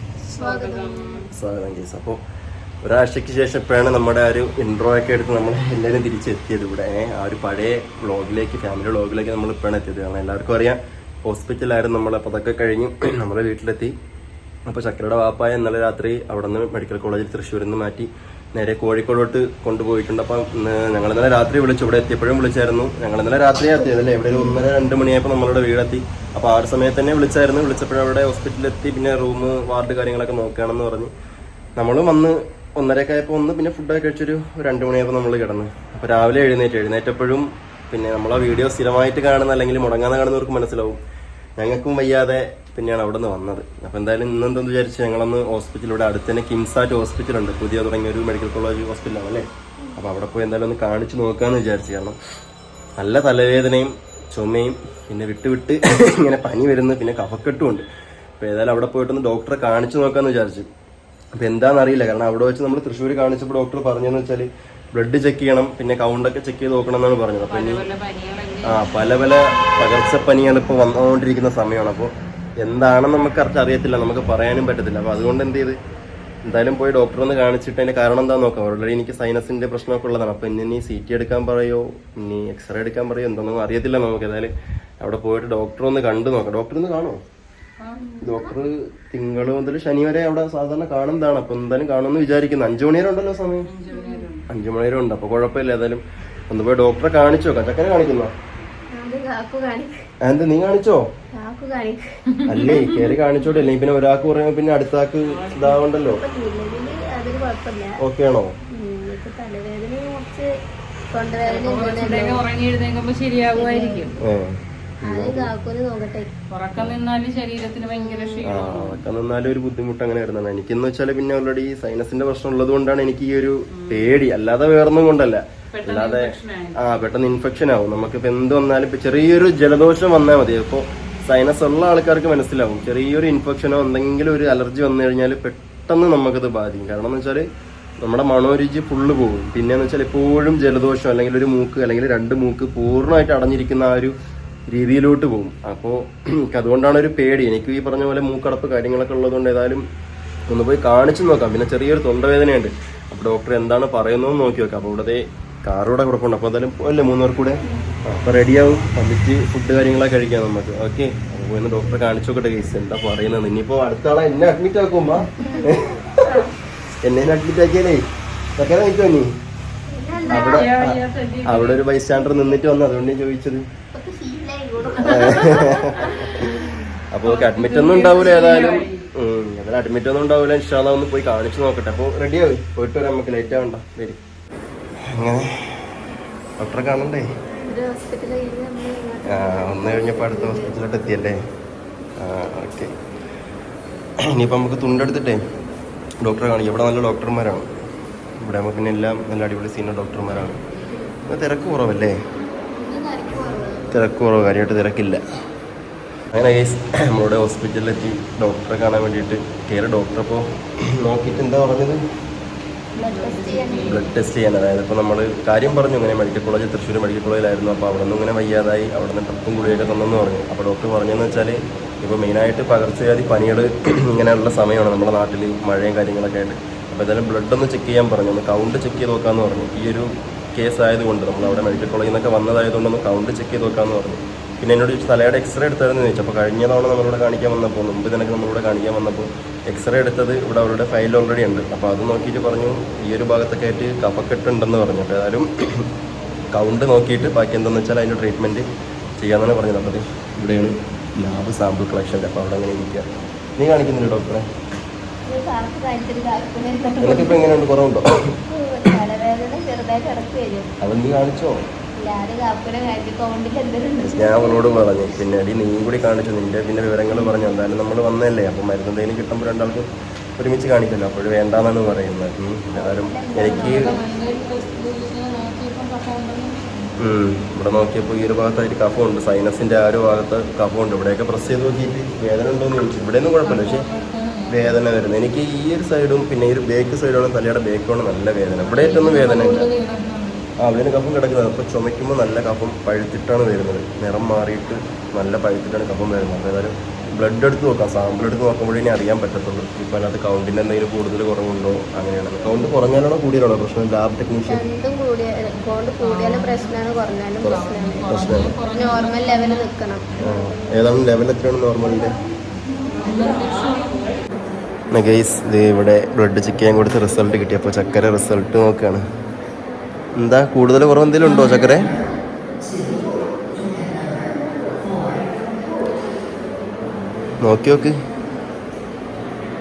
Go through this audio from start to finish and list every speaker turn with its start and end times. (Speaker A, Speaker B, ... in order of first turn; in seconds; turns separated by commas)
Speaker A: 0.3-1.3, Speaker B: 0.4-1.3, Speaker C: 1.3-2.2, Speaker C: 2.8-13.9, Speaker C: 14.7-31.1, Speaker A: 24.3-24.6, Speaker C: 31.8-41.0, Speaker C: 41.6-52.2, Speaker C: 53.0-57.9, Speaker C: 58.4-60.7, Speaker C: 61.4-67.8, Speaker B: 67.4-68.9, Speaker C: 68.7-75.8, Speaker C: 76.4-87.2, Speaker B: 87.8-88.1, Speaker A: 88.0-88.5, Speaker C: 88.2-93.7, Speaker B: 93.7-94.5, Speaker A: 93.9-94.3, Speaker C: 94.5-98.3, Speaker A: 98.9-100.0, Speaker C: 100.2-101.0, Speaker A: 101.4-102.0, Speaker B: 102.4-103.0, Speaker C: 102.5-106.2, Speaker A: 102.6-103.0, Speaker B: 105.2-105.8, Speaker A: 106.0-108.0, Speaker C: 108.0-108.5, Speaker A: 108.7-110.5, Speaker A: 111.1-112.4, Speaker B: 111.5-114.2, Speaker A: 113.5-114.2, Speaker C: 114.2-115.5, Speaker A: 115.1-116.3, Speaker B: 116.5-119.0, Speaker A: 117.8-118.5, Speaker C: 118.4-137.4, Speaker B: 123.7-124.2, Speaker B: 125.7-127.1, Speaker C: 138.0-144.1, Speaker C: 144.7-149.8, Speaker C: 150.5-166.4, Speaker A: 165.4-165.9, Speaker B: 166.2-166.5, Speaker C: 167.0-168.0, Speaker C: 168.6-169.3, Speaker A: 169.9-170.7, Speaker B: 170.3-171.8, Speaker C: 170.3-173.6, Speaker A: 172.2-172.6, Speaker A: 173.9-176.7, Speaker C: 175.0-176.4, Speaker B: 175.1-175.3, Speaker B: 176.7-179.1, Speaker C: 177.1-184.2, Speaker C: 185.1-185.9, Speaker C: 186.6-187.3, Speaker A: 187.6-190.8, Speaker C: 189.3-191.4, Speaker C: 192.2-192.9, Speaker C: 194.3-195.4, Speaker C: 196.2-197.7, Speaker C: 198.4-200.6, Speaker C: 201.3-202.2, Speaker A: 202.8-203.9, Speaker C: 203.9-205.2, Speaker C: 206.3-212.0, Speaker A: 213.0-214.0, Speaker B: 213.0-214.1, Speaker C: 213.8-245.9, Speaker A: 231.4-231.8, Speaker C: 246.5-248.7, Speaker C: 249.2-254.5, Speaker A: 255.3-257.5, Speaker C: 257.0-258.1, Speaker A: 258.5-260.8, Speaker C: 260.8-261.6, Speaker A: 262.0-264.9, Speaker C: 264.0-273.9, Speaker A: 272.7-274.2, Speaker B: 273.5-276.9, Speaker C: 277.0-283.9, Speaker B: 283.4-284.9, Speaker C: 284.5-289.7, Speaker B: 288.6-290.4, Speaker C: 290.6-304.6, Speaker A: 304.5-308.1, Speaker B: 306.0-309.7, Speaker C: 307.4-308.5, Speaker A: 308.7-311.1, Speaker C: 310.2-312.2, Speaker B: 312.9-314.2, Speaker A: 312.9-313.7, Speaker C: 314.9-319.1, Speaker C: 320.2-321.9, Speaker C: 327.4-327.9